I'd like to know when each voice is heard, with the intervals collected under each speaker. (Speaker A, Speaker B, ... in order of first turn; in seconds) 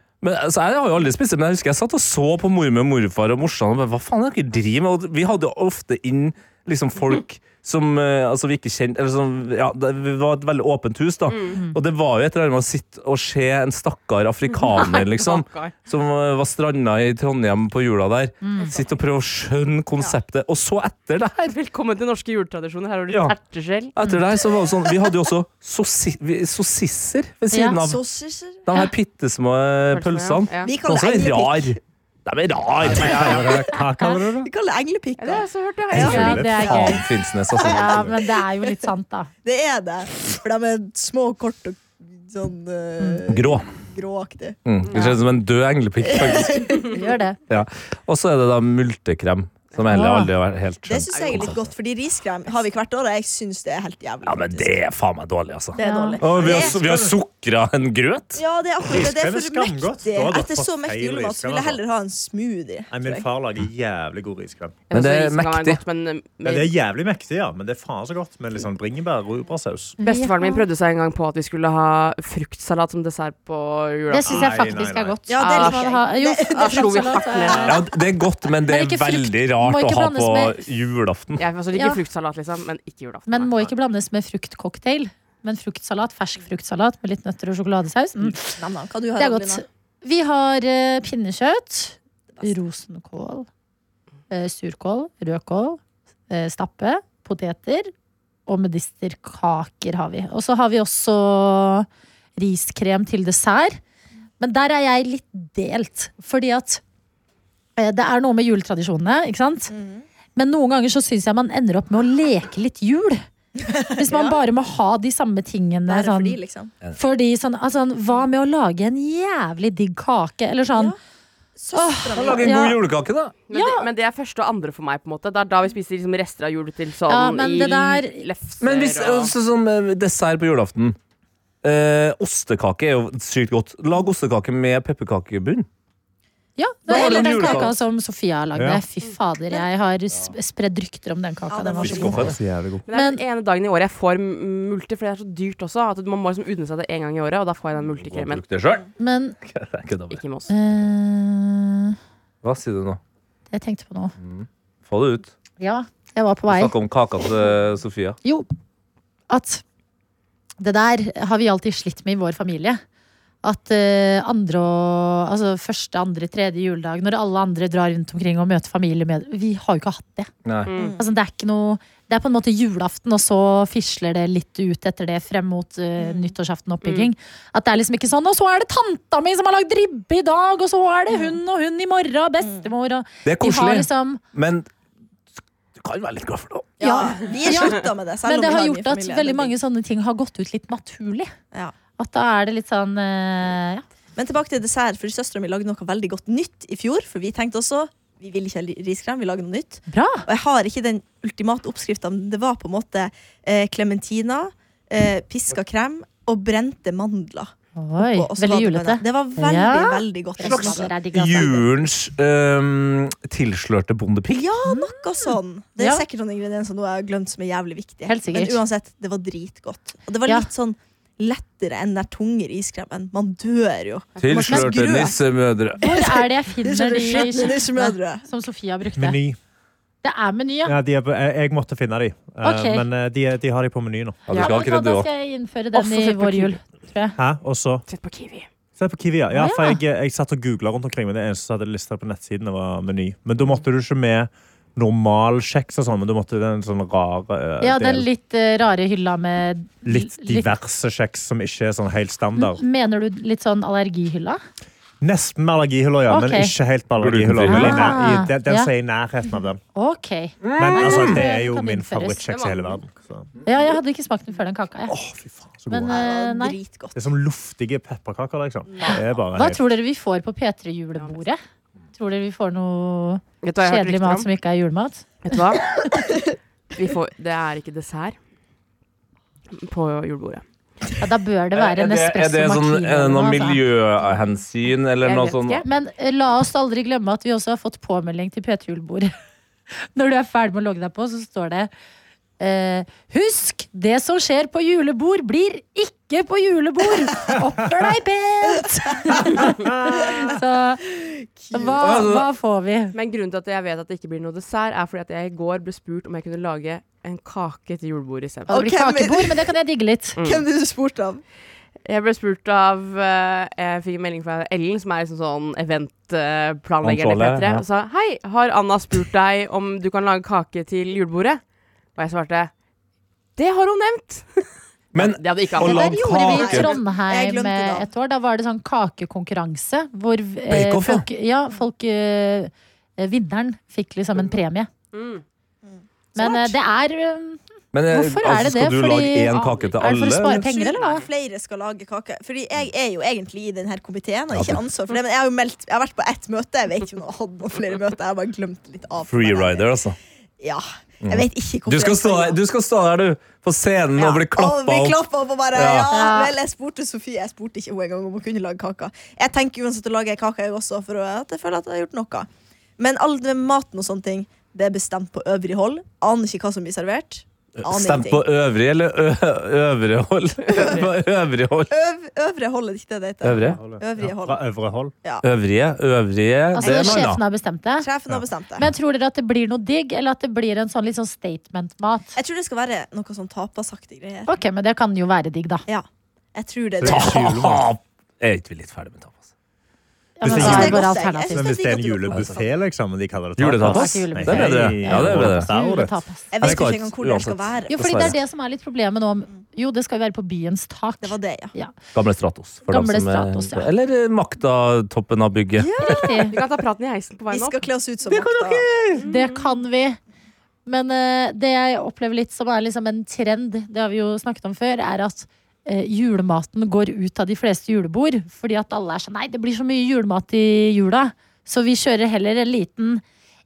Speaker A: 0.2-21.5, 23.1-23.4, 23.9-28.0, 28.6-33.7, 36.0-38.1, 43.3-43.7, 44.6-46.9, 47.5-51.7, 54.2-58.4, 64.9-65.8, 77.7-81.4, 122.1-123.3, 128.6-131.0, 131.6-135.7, 136.9-137.7, 141.8-142.4, 147.9-148.8, 149.4-150.2, 152.4-153.0, 154.2-155.3, 156.5-158.2, 170.4-170.7, 183.2-184.7, 185.8-186.8, 210.4-214.5, 224.2-225.8, 234.3-235.1, 257.0-258.0, 260.4-261.2, 281.5-285.6, 301.8-302.3, 316.8-317.6, 324.9-326.7, 330.5-331.1, 337.7-340.5, 344.3-344.6, 349.1-349.9, 351.0-356.0, 367.6-371.7, 373.2-373.6, 375.2-377.2, 386.8-389.3, 390.4-390.8, 392.1-392.4, 393.4-395.5, 396.4-398.1, 401.9-405.7, 408.1-409.0
Speaker B: 11.3-11.6, 14.6-15.7, 21.4-23.9, 29.9-30.7, 35.2-36.4, 51.1-51.5, 64.9-66.7, 70.0-74.5, 75.4-75.9, 76.5-77.8, 81.4-83.6, 123.5-129.3, 142.9-148.4, 150.1-150.5, 170.7-171.0, 176.8-177.1, 235.7-236.6, 237.9-238.5, 262.3-262.8, 273.4-274.3, 275.2-275.7, 276.7-278.1, 279.5-280.4, 285.0-285.6, 302.9-308.5, 310.2-310.4, 311.8-321.4, 321.9-322.5, 323.4-326.0, 334.9-335.2, 339.3-339.8, 340.8-341.1, 370.5-370.8, 406.3-407.7, 409.0-409.6
Speaker C: 18.4-18.7, 27.5-27.8, 34.0-34.2, 36.0-37.0, 37.6-39.3, 44.9-45.2, 46.9-47.4, 49.9-50.3, 55.8-56.2, 70.0-70.6, 74.1-77.8, 78.7-80.6, 81.7-82.0, 83.3-88.6, 89.2-93.5, 94.3-97.9, 98.5-103.8, 104.4-106.8, 107.8-109.7, 110.3-113.2, 113.9-116.4, 116.9-120.9, 121.7-122.8, 123.5-123.9, 127.1-128.2, 136.6-142.3, 142.9-143.2, 149.0-149.3, 150.5-151.9, 153.5-154.1, 155.6-156.7, 159.3-159.6, 160.6-162.8, 163.4-170.3, 171.0-184.2, 186.8-191.3, 192.0-193.8, 199.9-200.2, 207.8-211.7, 214.6-216.0, 218.1-218.6, 224.4-225.0, 225.8-229.2, 230.0-230.8, 232.4-232.8, 234.3-237.2, 239.3-239.8, 247.6-250.5, 252.3-254.4, 256.1-256.5, 257.5-258.7, 259.7-262.2, 263.4-264.9, 265.7-266.6, 268.8-271.4, 271.9-275.1, 281.0-283.6, 285.6-289.1, 289.8-291.7, 292.4-300.9, 301.5-302.9, 308.5-310.2, 325.6-334.7, 336.1-341.0, 355.9-356.4, 376.5-377.9, 378.6-382.1, 384.3-385.6, 390.2-391.5, 393.6-396.3, 397.7-401.7, 402.7-403.7, 405.8-406.4, 409.0-410.0, 410.6-423.0
Speaker D: 27.8-28.6, 30.6-31.8, 34.4-37.0, 37.5-38.6, 39.4-44.6, 46.0-47.0, 50.8-54.8, 55.7-56.8, 58.3-63.3, 75.3-77.8, 88.5-89.6, 109.7-110.0, 113.6-114.4, 115.9-116.7, 121.6-122.6, 141.5-142.3, 176.0-176.3, 182.4-182.7, 186.8-189.5, 194.2-210.9, 214.3-225.2, 225.8-228.2, 265.9-267.0, 298.5-300.3, 301.0-301.8, 308.5-309.5, 310.2-311.2, 325.6-327.9, 335.6-336.5, 340.2-349.7, 350.4-352.4, 353.9-368.2, 370.6-370.8, 371.7-374.4, 376.6-377.1, 377.8-378.7, 382.1-384.3, 385.7-387.3, 390.2-392.5, 396.3-398.1, 401.0-401.5, 405.6-406.4, 407.3-408.7
Speaker E: 32.8-34.5, 36.0-36.7, 56.3-57.2, 58.9-61.8, 62.9-64.8, 66.4-70.0, 74.2-75.2, 138.5-138.8, 141.9-142.9, 229.0-229.4, 230.7-234.2, 237.2-237.8, 238.8-248.1, 249.8-252.6, 255.0-259.6, 260.6-263.3, 264.9-266.0, 266.9-269.6, 373.6-374.9, 386.8-387.6, 390.2-396.0